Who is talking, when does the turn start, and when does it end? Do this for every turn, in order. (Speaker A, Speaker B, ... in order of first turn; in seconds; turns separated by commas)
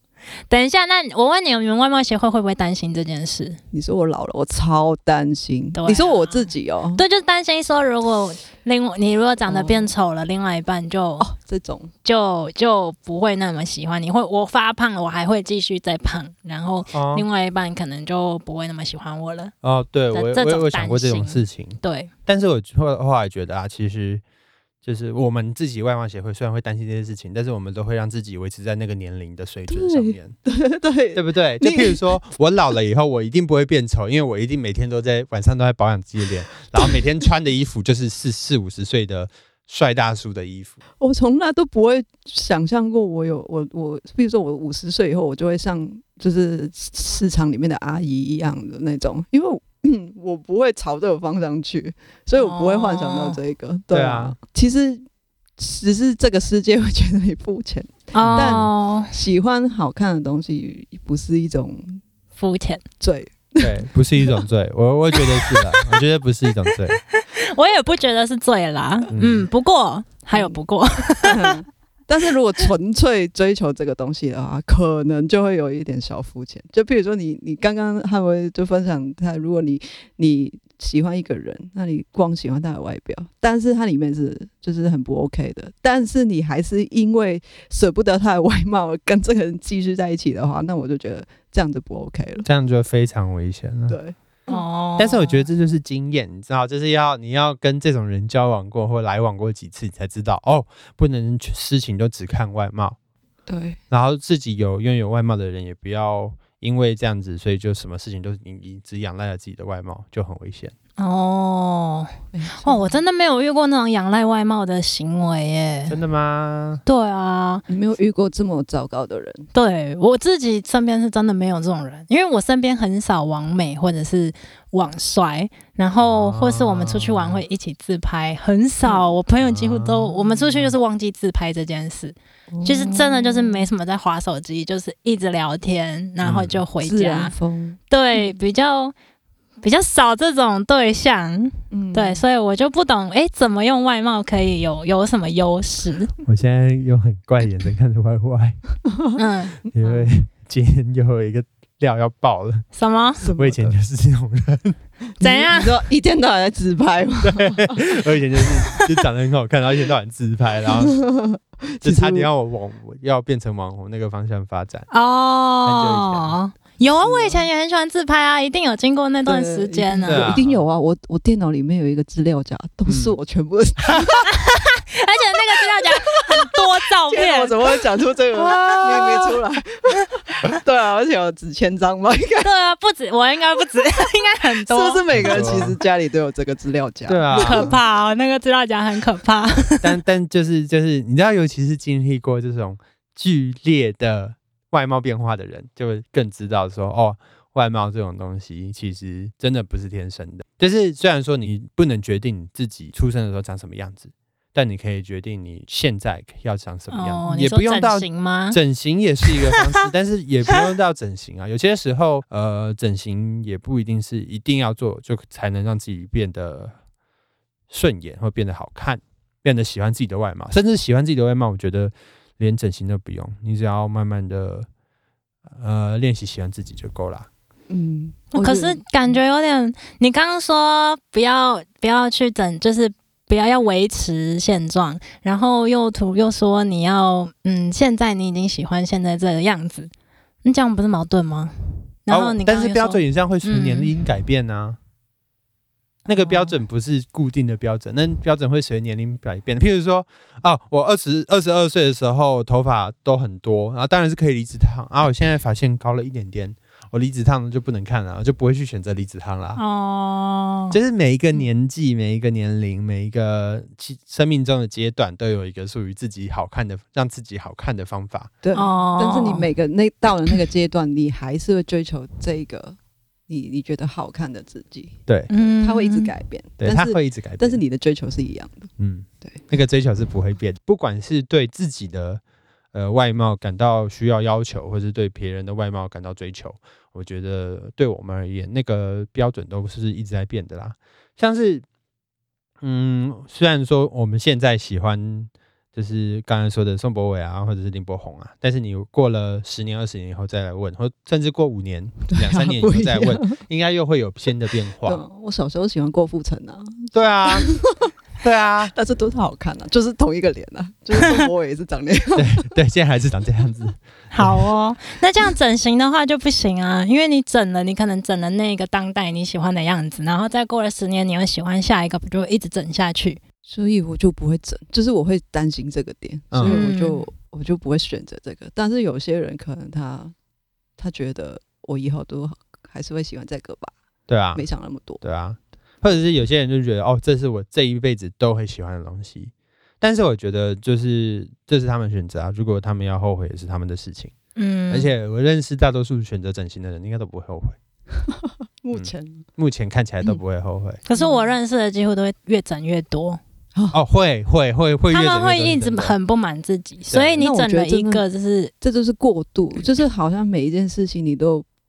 Speaker A: 0.5-3.6, Speaker B: 3.7-7.0, Speaker A: 5.8-11.3, Speaker B: 9.5-9.9, Speaker B: 11.2-11.9, Speaker A: 12.1-19.5, Speaker C: 16.9-17.3, Speaker C: 19.6-24.2, Speaker A: 20.1-22.1, Speaker C: 24.8-30.4, Speaker B: 29.7-32.0, Speaker C: 31.1-40.8, Speaker B: 41.0-55.0, Speaker A: 52.4-53.4, Speaker C: 53.9-54.4, Speaker B: 55.6-62.0, Speaker A: 58.1-59.1, Speaker C: 58.2-58.6, Speaker A: 62.4-62.8, Speaker B: 63.0-63.8, Speaker C: 63.6-67.0, Speaker A: 65.4-65.9, Speaker A: 67.1-71.6, Speaker C: 69.1-69.5, Speaker B: 70.3-70.6, Speaker B: 71.2-92.5, Speaker C: 92.5-94.0, Speaker B: 93.9-94.6, Speaker A: 94.5-95.5, Speaker C: 95.0-103.0, Speaker B: 103.5-103.8, Speaker C: 103.9-110.7, Speaker A: 111.0-112.1, Speaker B: 112.3-113.0, Speaker A: 112.7-116.0, Speaker C: 115.9-116.8, Speaker A: 116.9-117.7, Speaker B: 117.7-119.5, Speaker A: 119.5-137.3, Speaker C: 126.0-127.4, Speaker C: 129.4-130.8, Speaker B: 132.5-133.7, Speaker C: 136.2-136.6, Speaker B: 136.8-138.4, Speaker A: 137.9-138.9, Speaker A: 139.6-146.1, Speaker B: 141.7-142.2, Speaker C: 146.2-148.6, Speaker A: 149.2-149.6, Speaker C: 149.7-152.7, Speaker B: 149.8-150.1, Speaker A: 152.8-153.2, Speaker B: 153.2-153.8, Speaker C: 153.3-154.8, Speaker B: 155.2-157.8, Speaker A: 155.2-155.8, Speaker C: 157.2-161.0, Speaker B: 160.8-162.3, Speaker C: 161.8-164.9, Speaker A: 164.9-170.4, Speaker C: 165.6-166.3, Speaker B: 167.0-167.5, Speaker B: 169.3-174.3, Speaker C: 170.1-170.6, Speaker C: 172.9-173.1, Speaker A: 174.3-177.6, Speaker B: 175.8-182.5, Speaker C: 178.4-179.3, Speaker A: 182.4-185.6, Speaker B: 184.7-187.7, Speaker C: 185.1-185.8, Speaker C: 187.1-187.7, Speaker A: 187.3-189.9, Speaker C: 189.8-216.8, Speaker A: 206.9-208.6, Speaker A: 209.3-209.6, Speaker C: 217.7-224.7, Speaker C: 225.5-227.3, Speaker B: 227.7-229.2, Speaker A: 228.3-239.9, Speaker A: 240.4-241.5, Speaker A: 242.1-243.9, Speaker C: 242.1-244.8, Speaker C: 246.1-259.6, Speaker A: 259.6-260.8, Speaker C: 260.7-268.3, Speaker B: 268.4-272.8, Speaker A: 268.5-269.5, Speaker B: 273.3-275.0, Speaker A: 275.3-276.1, Speaker B: 275.6-278.7, Speaker C: 276.6-277.6, Speaker C: 278.8-282.2, Speaker C: 282.7-291.6, Speaker C: 292.6-305.0, Speaker B: 302.1-303.4, Speaker B: 304.8-307.9, Speaker C: 306.9-307.5, Speaker C: 308.2-308.7, Speaker B: 308.7-312.5, Speaker C: 312.1-314.5, Speaker A: 314.1-323.2, Speaker B: 323.4-330.1, Speaker C: 326.3-326.6, Speaker A: 326.4-327.1, Speaker B: 330.8-333.7, Speaker C: 334.1-334.4, Speaker B: 334.3-335.0, Speaker C: 335.0-344.1, Speaker A: 344.4-344.9, Speaker C: 344.7-347.6, Speaker B: 348.1-349.3, Speaker C: 348.7-350.8, Speaker A: 350.9-353.2, Speaker B: 350.9-351.3, Speaker C: 353.7-356.0, Speaker A: 354.9-358.5, Speaker C: 356.9-357.3, Speaker B: 357.2-358.0, Speaker B: 358.6-361.5